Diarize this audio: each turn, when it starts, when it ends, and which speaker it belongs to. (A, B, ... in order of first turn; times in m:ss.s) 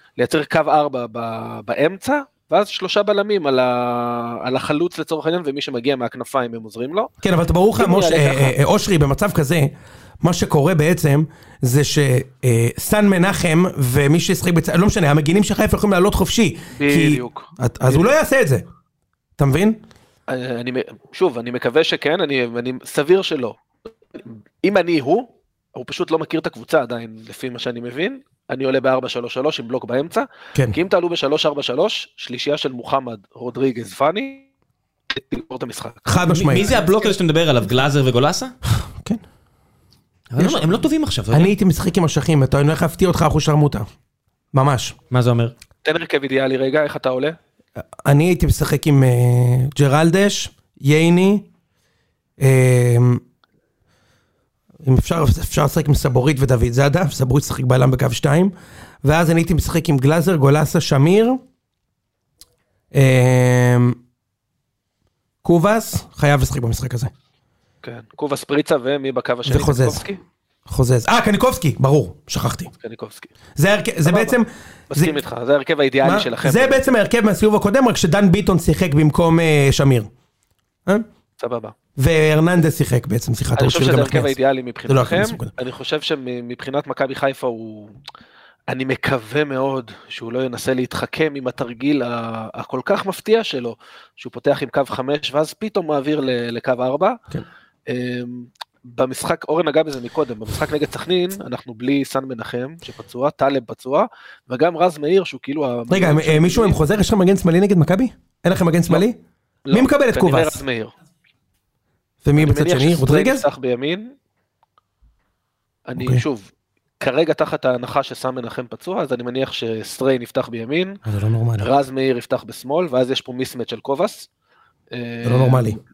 0:00.2-0:07.1 A
0:07.2-0:18.6 B
0:07.8-0:08.6 A
0:16.8-0:18.1 A
0:19.4-0:19.8 B
0:20.3-0:23.6 A
0:24.2-0:34.5 A
0:35.1-0:36.8 A
0:36.1-0:36.7 B
0:36.3-0:38.6 C
0:39.0-0:39.2 B
0:40.3-0:41.5 C
0:40.4-0:43.9 B
0:44.5-0:45.0 B
0:45.1-0:45.5 C
0:45.8-0:47.4 A
0:48.0-0:51.5 B
0:52.4-0:53.2 B
0:54.8-1:01.4 B
1:02.9-1:04.0 B
1:05.4-1:07.1 B
1:07.8-1:10.2 A
1:09.4-1:10.0 B
1:10.7-1:12.7 B
1:12.8-1:13.3 A
1:13.6-1:15.2 B
1:14.0-1:14.4 A
1:14.9-1:16.8 A
1:16.0-1:20.1 B
1:21.4-1:21.8 A
1:22.0-1:24.3 B
1:23.6-1:28.0 A
1:24.9-1:25.5 B
1:28.7-1:37.2 A
1:37.9-1:46.8 A
1:45.9-1:49.2 B
1:49.7-1:50.9 A
1:49.7-1:50.6 B
1:52.2-1:53.5 B
1:52.4-1:54.1 A
1:55.9-1:56.5 A
1:56.0-1:56.2 B
1:57.0-2:01.0 A
2:01.1-2:01.7 B
2:01.6-2:04.3 A
2:04.9-2:05.8 A
2:05.2-2:05.8 B